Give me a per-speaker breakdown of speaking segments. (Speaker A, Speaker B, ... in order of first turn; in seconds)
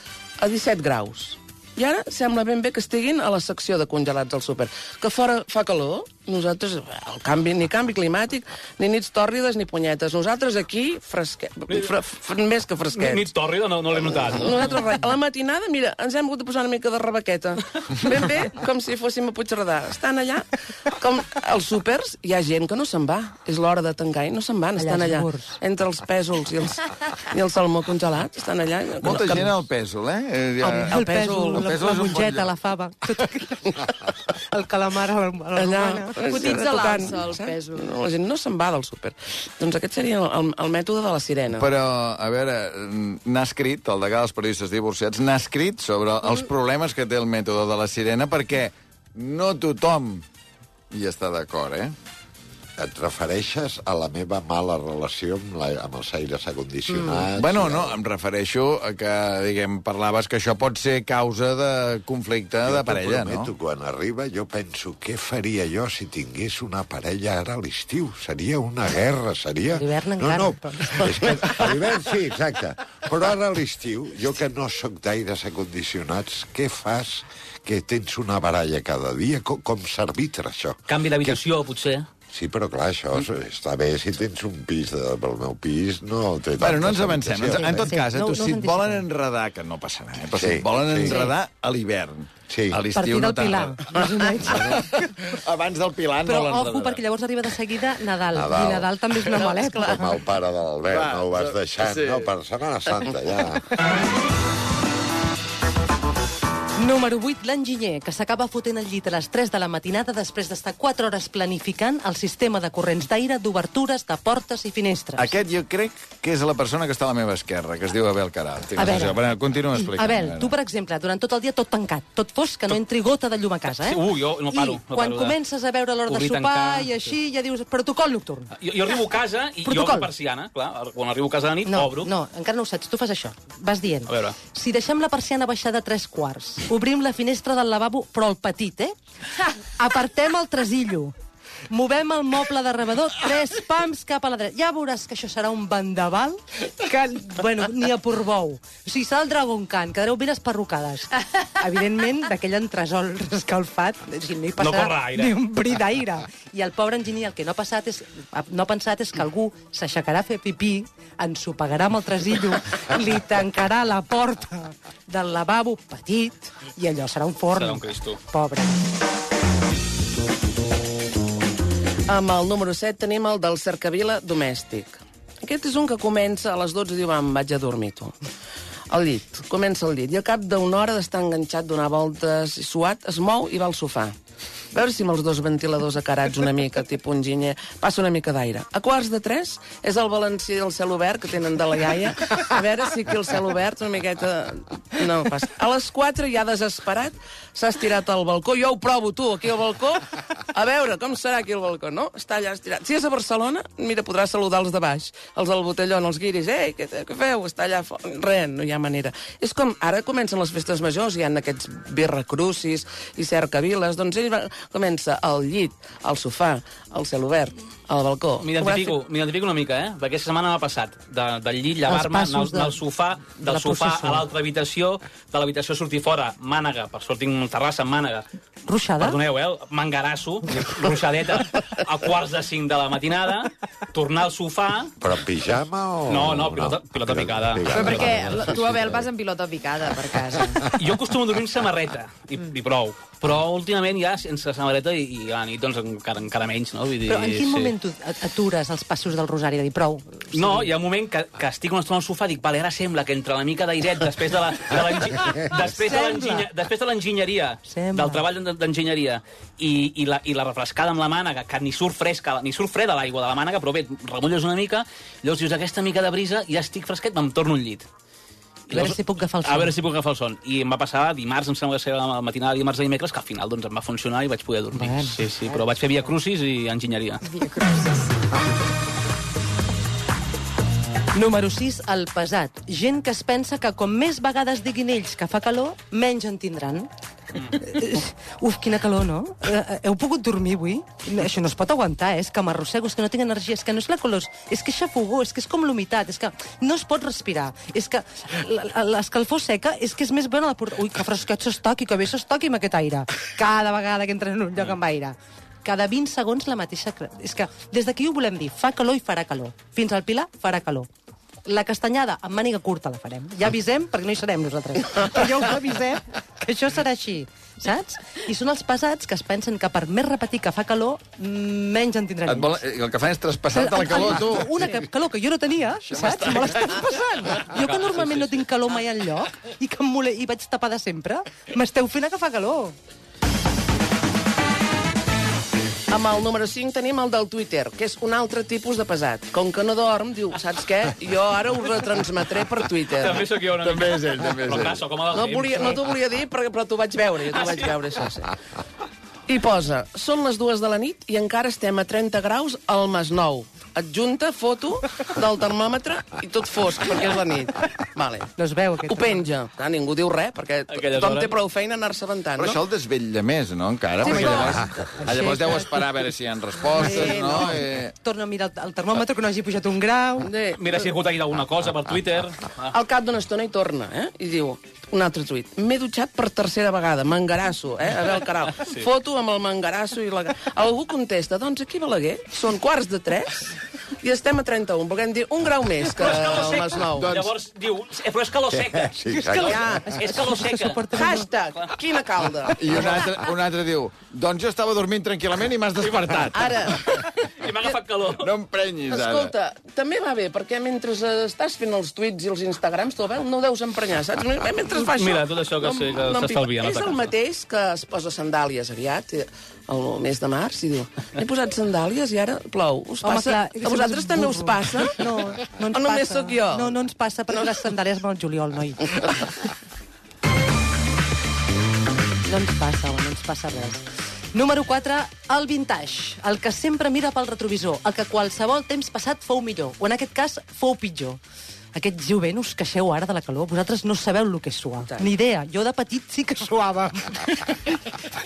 Speaker A: 0.4-13.3, 14.2-29.6, 30.9-31.8, 35.5-41.7, 99.3-100.0, 172.1-178.2, 178.9-184.1, 184.7-219.0, 335.9-343.2, 345.1-348.3, 349.3-358.3, 358.9-362.6, 364.0-365.2, 366.8-367.5, 370.2-370.9, 372.7-387.1, 390.9-393.0, 396.4-397.0, 398.8-415.0, 415.7-416.7
Speaker B: 12.9-14.6, 80.9-82.0, 123.8-125.4, 126.1-127.1, 128.6-132.1, 134.1-134.4, 154.6-155.3, 167.5-168.2, 218.4-228.2, 229.0-234.9, 236.1-238.0, 240.8-247.7, 250.3-267.9, 268.7-277.4, 327.5-328.4, 342.9-345.8, 347.3-347.7, 360.7-361.3, 370.5-372.7, 378.6-378.9, 385.9-391.7, 395.9-396.2, 397.1-398.3, 404.8-407.1
Speaker C: 24.8-25.5, 30.6-36.5, 69.7-71.3, 87.5-89.0, 92.9-95.0, 96.2-100.2, 106.8-115.3, 118.7-119.2, 119.8-128.5, 129.6-130.1, 131.7-138.9, 139.7-141.1, 141.7-168.8, 221.8-222.8, 223.3-224.2, 228.7-229.2, 247.1-250.7, 255.6-256.5, 257.7-258.2, 268.7-269.8, 274.7-275.1, 281.1-310.9, 311.4-322.6, 323.5-332.7, 358.4-359.2, 364.0-365.7, 368.0-370.3, 389.1-391.3, 413.0-419.3, 422.2-423.8, 424.3-431.2, 431.7-437.9
Speaker D: 29.0-31.0, 31.5-32.5, 41.5-50.2, 50.9-51.9, 57.2-63.5, 86.6-93.8, 94.9-97.0, 100.9-102.3, 115.2-120.5, 322.2-324.7, 325.9-326.8, 343.6-344.8, 362.4-367.9, 387.0-387.3, 392.5-396.7, 398.2-399.3
Speaker E: 36.2-37.9, 237.7-240.7, 277.4-278.0
Speaker F: 52.8-58.0, 62.6-81.4, 82.3-87.9, 90.3-91.3, 92.5-92.8, 94.4-94.8, 98.3-98.9, 99.7-103.7, 235.0-239.1, 240.4-241.0, 388.5-389.9